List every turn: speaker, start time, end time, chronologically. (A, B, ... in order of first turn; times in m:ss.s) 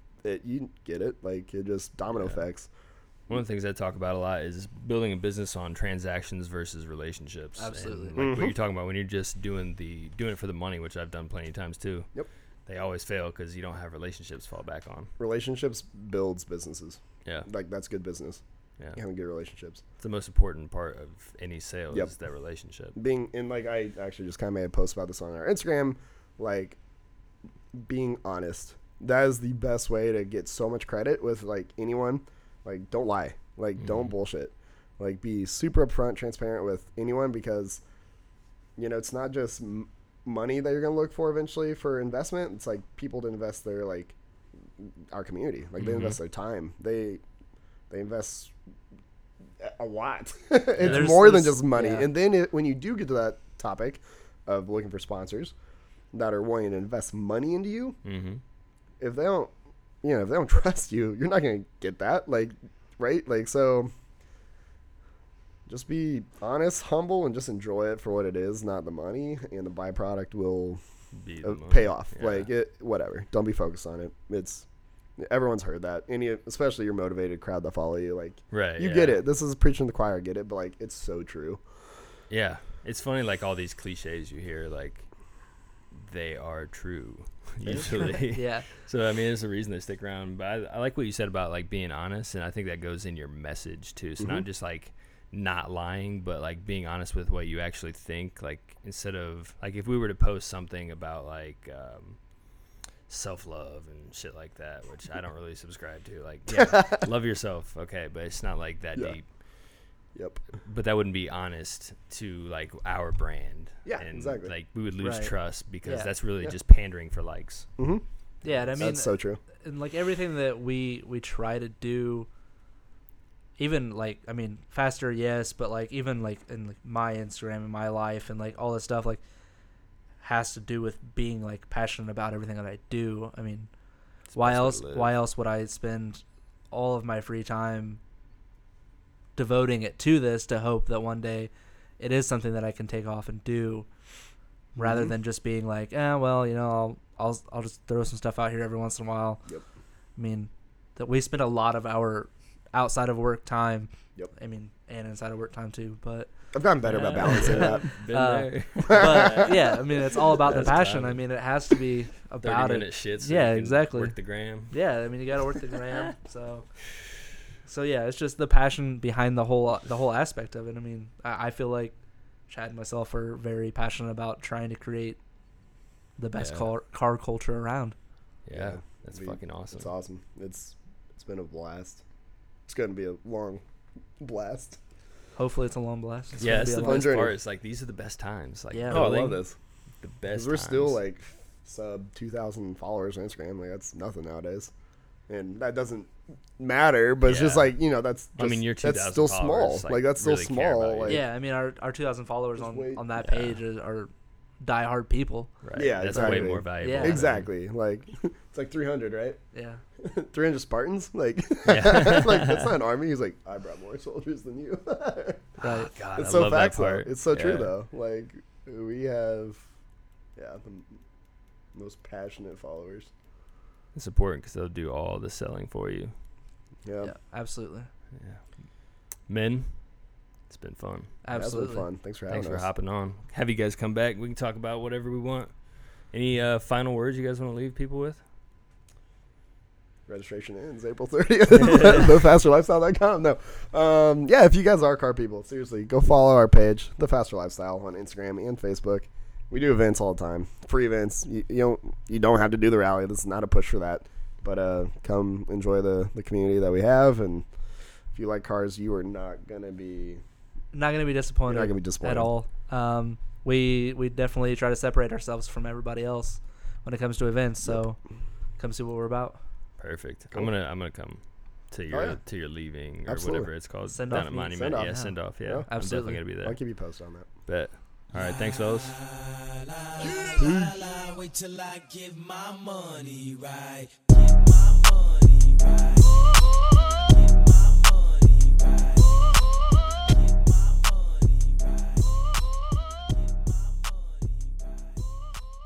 0:00.2-0:02.7 A
0:03.3-0:12.1 B
0:07.6-0:08.2 C
0:08.2-0:08.5 A
0:12.6-0:15.1 B
0:15.2-0:18.4 A
0:18.9-0:19.8 A
0:20.0-0:23.0 B
0:22.9-0:26.8 A
0:27.7-0:37.8 A
0:33.8-0:34.1 B
0:38.8-0:44.1 A
0:44.8-0:47.2 A
0:45.8-0:46.2 B
0:47.9-0:48.5 A
0:49.6-0:55.5 A
0:50.8-0:51.1 B
0:50.8-0:52.1 C
0:56.1-0:58.0 A
0:58.0-0:58.4 B
0:59.0-0:59.5 A
1:00.0-1:03.9 A
1:05.7-1:10.8 A
1:11.1-1:12.5 B
1:11.4-1:14.6 A
1:15.2-1:21.6 A
1:18.5-1:19.2 B
1:22.3-1:25.1 B
1:25.9-1:42.2 B
1:27.6-1:28.2 A
1:28.2-1:28.6 C
1:34.2-1:34.4 A
1:43.1-1:49.2 B
1:46.5-1:47.0 A
1:50.1-1:50.4 A
1:50.6-1:57.7 B
1:53.8-1:54.5 A
1:55.0-1:55.3 C
1:55.8-1:56.1 C
1:57.8-1:58.0 A
1:58.4-2:02.3 C
1:58.8-1:59.4 A
2:03.6-2:09.2 C
2:10.2-2:13.7 C
2:14.3-2:15.1 B
2:14.3-2:18.0 C
2:19.4-2:23.9 C
2:24.8-2:25.1 A
2:24.8-2:29.4 C
2:30.2-2:36.3 C
2:36.5-2:37.9 A
2:36.8-2:39.7 B
2:37.2-2:44.1 C
2:38.9-2:40.7 A
2:40.4-2:41.2 B
2:42.4-2:44.7 B
2:44.7-2:46.6 C
2:47.6-2:51.9 C
2:52.5-2:55.2 C
2:56.2-2:57.9 C
2:56.3-2:56.6 B
2:58.4-2:59.9 B
2:58.5-3:02.0 A
3:02.7-3:03.6 A
3:04.2-3:04.8 A
3:05.4-3:07.2 C
3:06.4-3:07.3 A
3:06.4-3:09.4 B
3:08.7-3:09.1 C
3:08.9-3:09.6 A
3:10.0-3:11.0 B
3:10.3-3:14.7 A
3:15.3-3:21.2 A
3:17.2-3:17.8 B
3:18.4-3:21.2 B
3:21.1-3:25.6 C
3:22.6-3:23.0 A
3:23.2-3:23.6 B
3:25.6-3:27.5 B
3:25.8-3:29.4 A
3:26.1-3:27.2 C
3:29.5-3:29.8 C
3:30.0-3:35.6 A
3:31.6-3:32.7 B
3:35.6-3:37.7 B
3:35.6-3:35.9 C
3:36.2-3:39.6 A
3:40.4-3:41.0 A
3:41.7-3:43.1 A
3:43.9-3:46.1 B
3:46.8-3:47.1 A
3:47.0-3:47.9 C
3:48.2-3:48.4 B
3:49.3-3:49.8 B
3:50.5-3:51.1 B
3:51.2-3:51.9 C
3:51.3-3:52.6 A
3:52.3-3:58.2 B
4:00.1-4:17.4 A
4:18.1-4:20.2 A
4:20.7-4:28.0 C
4:21.5-4:22.3 A
4:28.6-4:29.4 C
4:29.8-4:36.6 B
4:31.9-4:32.2 A
4:33.0-4:35.7 A
4:33.9-4:36.2 C
4:36.4-4:37.3 A
4:37.5-4:39.0 B
4:38.2-4:55.2 D
4:40.0-4:41.0 A